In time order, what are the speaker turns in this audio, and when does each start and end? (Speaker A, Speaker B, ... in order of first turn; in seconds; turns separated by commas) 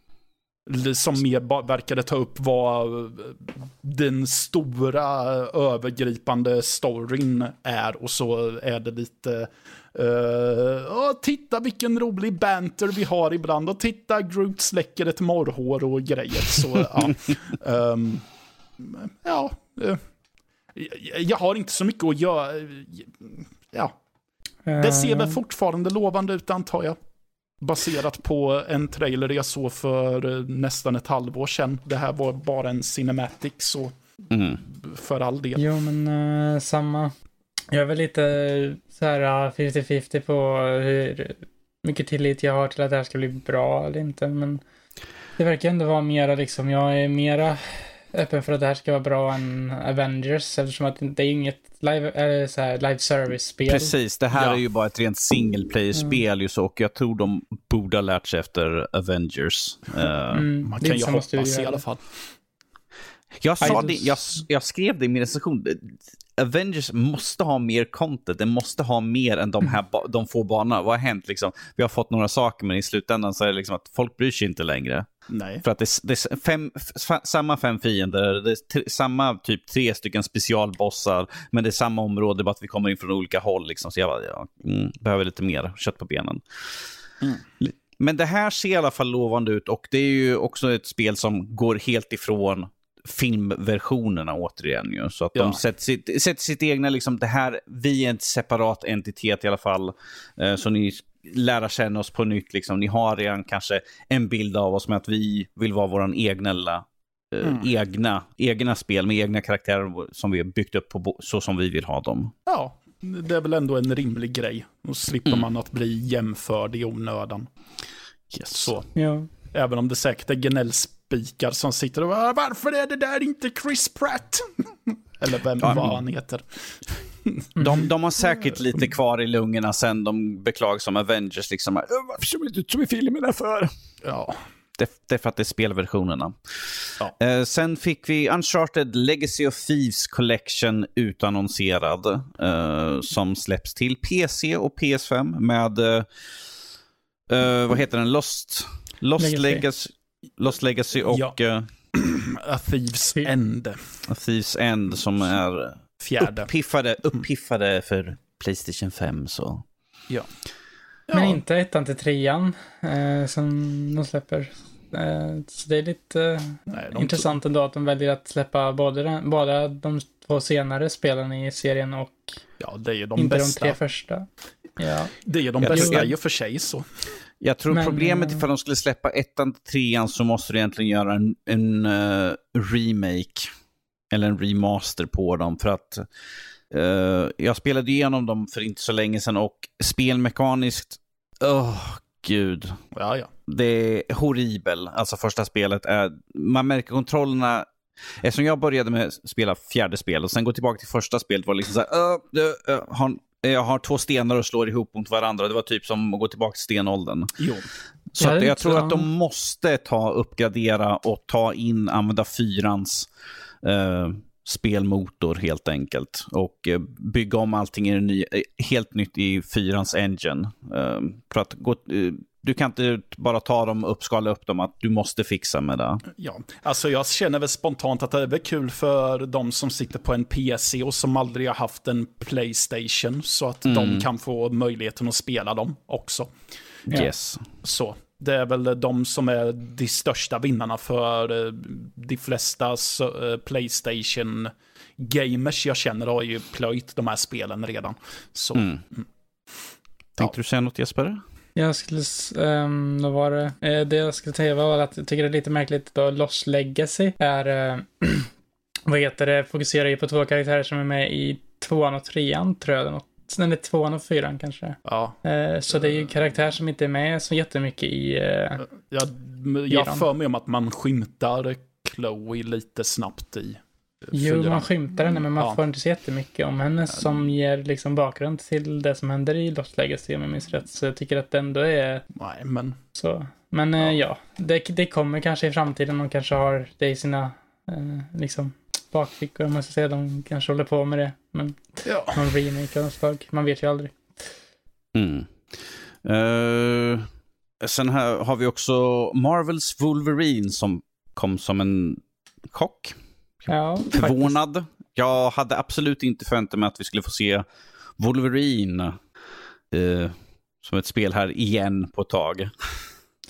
Speaker A: 0.7-18.2, Speaker A: 18.8-20.0, Speaker A: 20.7-23.9, Speaker B: 24.7-25.4, Speaker A: 24.8-27.0, Speaker A: 27.6-34.0, Speaker C: 34.3-34.6, Speaker A: 34.7-35.6, Speaker B: 35.6-37.1, Speaker B: 37.7-44.6, Speaker B: 45.4-53.9, Speaker C: 53.7-60.5, Speaker A: 54.3-54.6, Speaker B: 60.3-61.8, Speaker A: 60.6-62.0, Speaker C: 63.4-75.1, Speaker B: 63.6-63.9, Speaker A: 75.3-75.6, Speaker C: 75.6-86.7, Speaker C: 87.6-112.3, Speaker A: 95.3-95.6, Speaker A: 107.4-107.7, Speaker A: 112.5-117.5, Speaker C: 118.3-118.7, Speaker A: 118.6-118.9, Speaker B: 119.0-119.3, Speaker A: 119.5-127.9, Speaker C: 125.6-125.9, Speaker C: 127.6-133.7, Speaker A: 134.0-134.4, Speaker C: 134.8-146.1, Speaker C: 147.3-151.7, Speaker B: 149.2-149.6, Speaker A: 151.1-151.4, Speaker A: 151.9-153.9, Speaker C: 154.1-159.6, Speaker A: 156.0-156.5, Speaker A: 161.1-161.4, Speaker B: 161.1-172.4, Speaker A: 166.7-167.3, Speaker A: 172.6-173.8, Speaker B: 173.2-174.3, Speaker B: 174.8-175.2, Speaker A: 175.2-177.1, Speaker C: 175.6-176.1, Speaker B: 175.7-176.1, Speaker C: 177.4-183.5, Speaker B: 177.7-178.4, Speaker C: 184.1-186.1, Speaker C: 186.7-192.8, Speaker A: 192.9-193.3, Speaker C: 193.5-197.7, Speaker C: 198.2-207.4, Speaker A: 207.4-207.7, Speaker C: 208.1-213.1, Speaker B: 208.2-209.1, Speaker C: 213.6-226.0, Speaker A: 226.1-236.3, Speaker C: 233.7-234.1, Speaker C: 236.9-237.4, Speaker A: 237.6-249.1, Speaker C: 248.6-248.8, Speaker C: 250.2-251.2, Speaker B: 251.6-258.3, Speaker B: 258.9-268.6, Speaker A: 264.9-265.2, Speaker A: 268.8-274.7, Speaker B: 269.7-270.1, Speaker B: 274.1-282.1, Speaker A: 282.1-282.8, Speaker B: 282.9-294.2, Speaker A: 291.9-292.2, Speaker C: 294.9-297.1, Speaker C: 297.6-303.0, Speaker B: 303.5-304.3, Speaker C: 303.9-307.4, Speaker C: 308.0-309.0, Speaker C: 309.7-312.5